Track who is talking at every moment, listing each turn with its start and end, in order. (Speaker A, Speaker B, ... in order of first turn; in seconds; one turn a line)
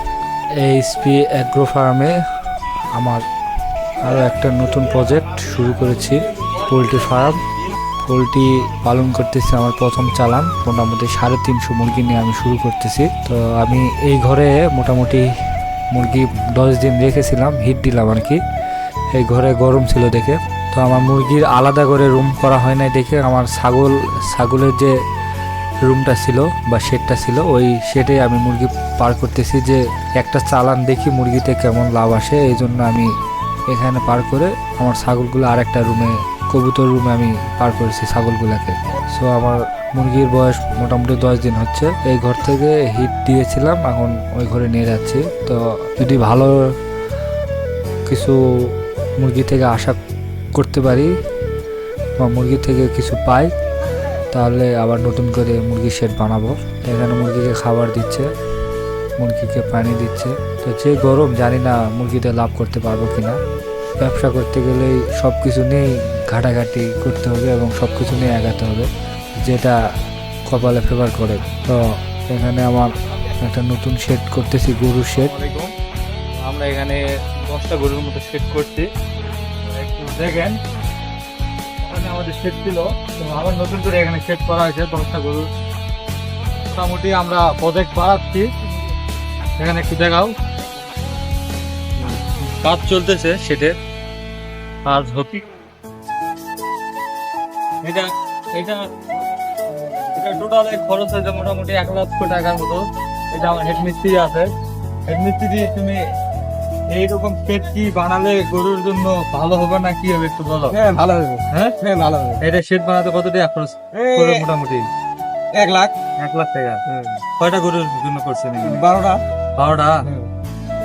Speaker A: 0.6-2.1
Speaker A: 4.0-7.4
Speaker A: 8.1-15.2
Speaker A: 15.9-18.4
Speaker A: 19.2-24.9
Speaker A: 25.9-33.1
Speaker A: 33.7-46.5
Speaker A: 48.1-48.4
Speaker A: 49.2-50.0
Speaker A: 50.5-51.1
Speaker A: 52.2-53.5
Speaker A: 54.3-58.3
Speaker A: 59.2-63.4
Speaker A: 64.0-69.8
Speaker A: 70.5-75.3
Speaker B: 75.2-75.7
Speaker B: 76.4-78.9
Speaker B: 79.7-80.6
Speaker B: 81.9-85.5
Speaker B: 86.7-88.5
Speaker B: 89.6-90.3
Speaker B: 92.0-93.8
Speaker B: 94.9-95.4
Speaker B: 97.8-98.9
Speaker B: 100.1-104.5
Speaker B: 105.1-106.0
Speaker B: 106.9-110.8
Speaker C: 110.7-112.4
Speaker B: 112.4-114.8
Speaker C: 114.0-114.5
Speaker C: 115.5-115.9
Speaker B: 116.2-118.8
Speaker C: 118.6-119.2
Speaker B: 119.6-120.0